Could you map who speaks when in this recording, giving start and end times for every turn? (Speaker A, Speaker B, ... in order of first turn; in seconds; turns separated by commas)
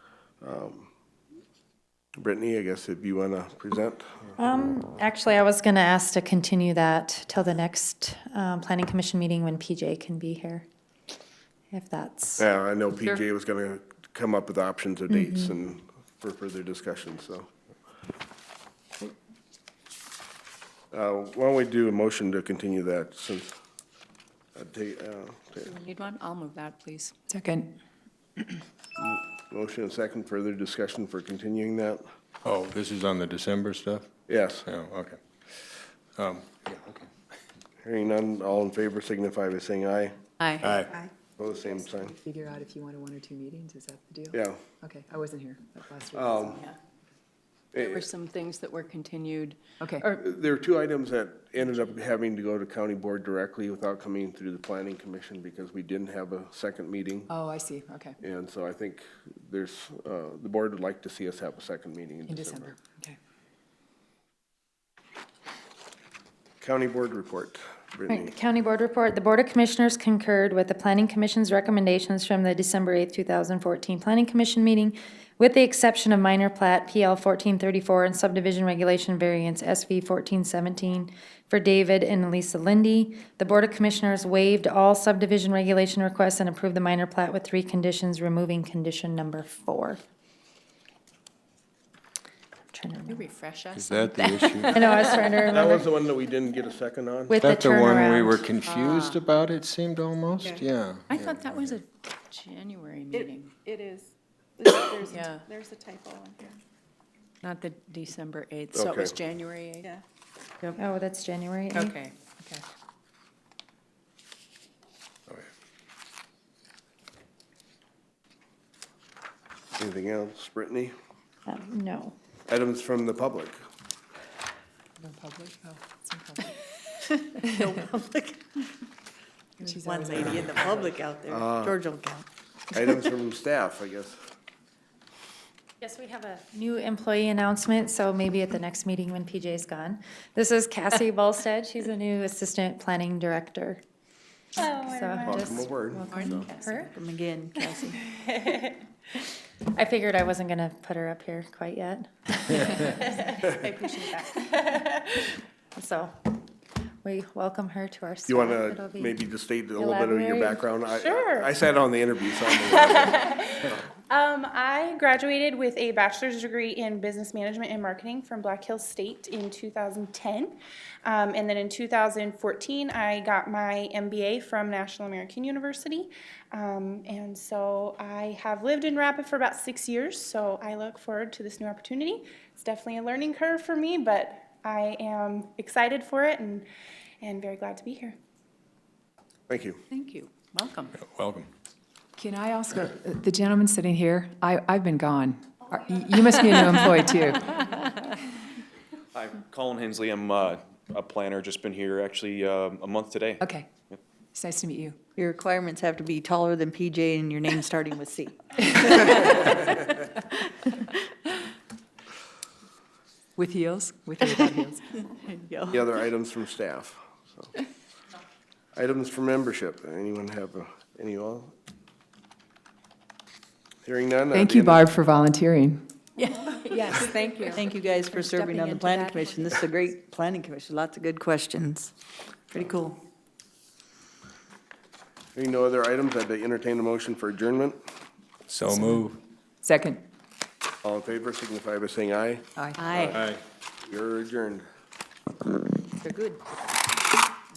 Speaker A: 0.4-0.9, Speaker A: 2.2-4.3, Speaker B: 4.4-10.7, Speaker B: 11.7-12.4, Speaker A: 12.4-17.5, Speaker B: 15.1-15.5, Speaker A: 20.9-23.5, Speaker A: 24.6-25.7, Speaker C: 25.7-27.1, Speaker D: 27.3-27.8, Speaker A: 29.0-32.0, Speaker E: 32.5-34.1, Speaker A: 34.3-34.7, Speaker E: 34.6-37.1, Speaker A: 37.8-40.1, Speaker F: 40.4-41.1, Speaker E: 40.6-40.9, Speaker A: 41.4-42.1, Speaker D: 42.2-46.7, Speaker A: 44.3-44.6, Speaker A: 46.1-46.7, Speaker A: 47.8-48.1, Speaker C: 47.8-49.6, Speaker D: 49.8-50.1, Speaker A: 50.0-57.3, Speaker D: 57.3-58.2, Speaker A: 58.2-62.8, Speaker D: 62.3-63.2, Speaker A: 66.6-68.3, Speaker B: 68.1-90.0, Speaker B: 92.7-93.3, Speaker C: 93.1-95.5, Speaker E: 93.7-95.0, Speaker B: 94.7-95.9, Speaker A: 95.5-97.4, Speaker B: 97.3-98.5, Speaker E: 97.4-101.8, Speaker C: 98.7-99.2, Speaker C: 101.1-103.7, Speaker C: 104.9-105.5, Speaker C: 107.4-110.0, Speaker A: 108.7-109.1, Speaker B: 110.6-112.0, Speaker C: 111.8-112.3, Speaker A: 119.8-120.9, Speaker B: 121.5-122.2, Speaker A: 122.5-123.6, Speaker D: 125.0-126.6, Speaker F: 127.3-128.5, Speaker D: 127.4-127.8, Speaker D: 129.6-131.0, Speaker F: 129.7-132.3, Speaker A: 131.2-131.8, Speaker A: 132.7-134.2, Speaker B: 135.8-143.8, Speaker G: 144.6-145.6, Speaker B: 144.6-146.9, Speaker A: 145.2-146.5, Speaker F: 146.1-148.0, Speaker B: 149.7-154.4, Speaker B: 155.8-156.3, Speaker B: 157.0-160.7, Speaker A: 158.3-163.2, Speaker G: 160.9-161.5, Speaker G: 162.7-186.7, Speaker G: 187.2-188.2, Speaker A: 189.5-189.8, Speaker C: 189.9-190.9, Speaker E: 191.0-191.5, Speaker D: 192.2-197.8, Speaker H: 199.2-204.0, Speaker D: 203.4-203.7, Speaker D: 204.3-205.0, Speaker F: 205.2-209.6, Speaker D: 213.4-214.8, Speaker F: 214.3-214.5, Speaker F: 215.2-215.9, Speaker A: 215.6-217.5, Speaker A: 218.8-221.5, Speaker A: 223.8-224.8, Speaker D: 224.3-225.9, Speaker C: 226.5-229.5, Speaker D: 226.7-227.6, Speaker F: 226.9-231.9, Speaker F: 232.5-233.0, Speaker A: 235.3-237.8, Speaker E: 238.5-239.2, Speaker D: 238.7-239.1, Speaker D: 239.6-240.0, Speaker A: 240.8-243.3, Speaker D: 242.6-242.9, Speaker F: 242.8-243.2, Speaker E: 243.1-243.4, Speaker A: 243.8-244.6